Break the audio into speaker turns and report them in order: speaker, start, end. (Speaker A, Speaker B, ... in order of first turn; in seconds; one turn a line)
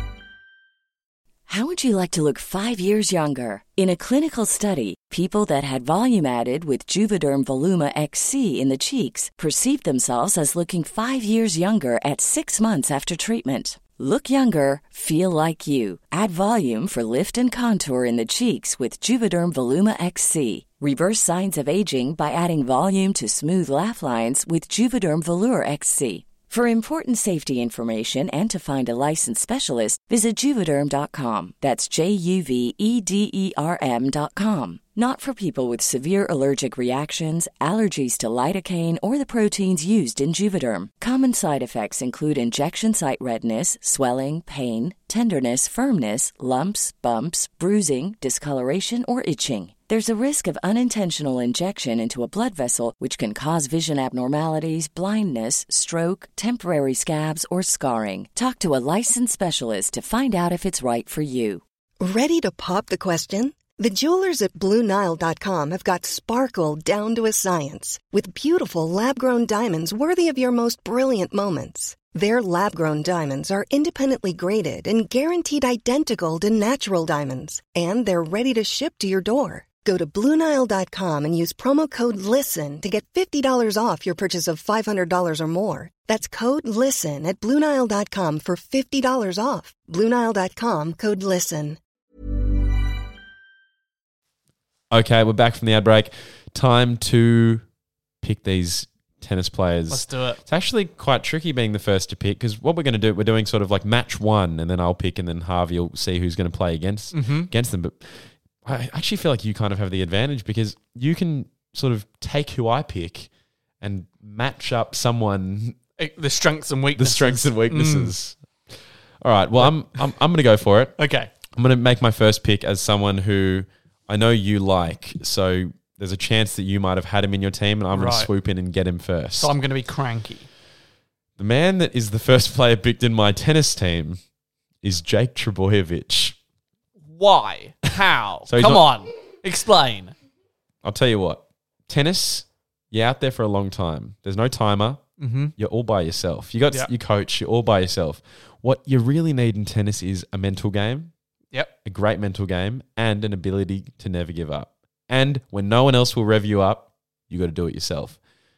Speaker A: 1.5-61.6
Speaker B: 62.0-91.8
Speaker C: 94.9-97.7
Speaker C: 98.2-113.3
Speaker D: 99.9-100.4
Speaker D: 107.1-107.5
Speaker C: 113.8-115.8
Speaker D: 116.0-118.1
Speaker C: 117.0-118.4
Speaker C: 119.2-121.0
Speaker D: 121.0-121.3
Speaker C: 121.5-129.5
Speaker D: 127.9-128.3
Speaker D: 129.4-130.5
Speaker C: 131.4-134.2
Speaker C: 134.8-136.4
Speaker D: 137.1-140.1
Speaker C: 138.5-138.8
Speaker C: 140.8-145.0
Speaker D: 145.2-145.5
Speaker C: 145.6-151.1
Speaker C: 151.8-158.2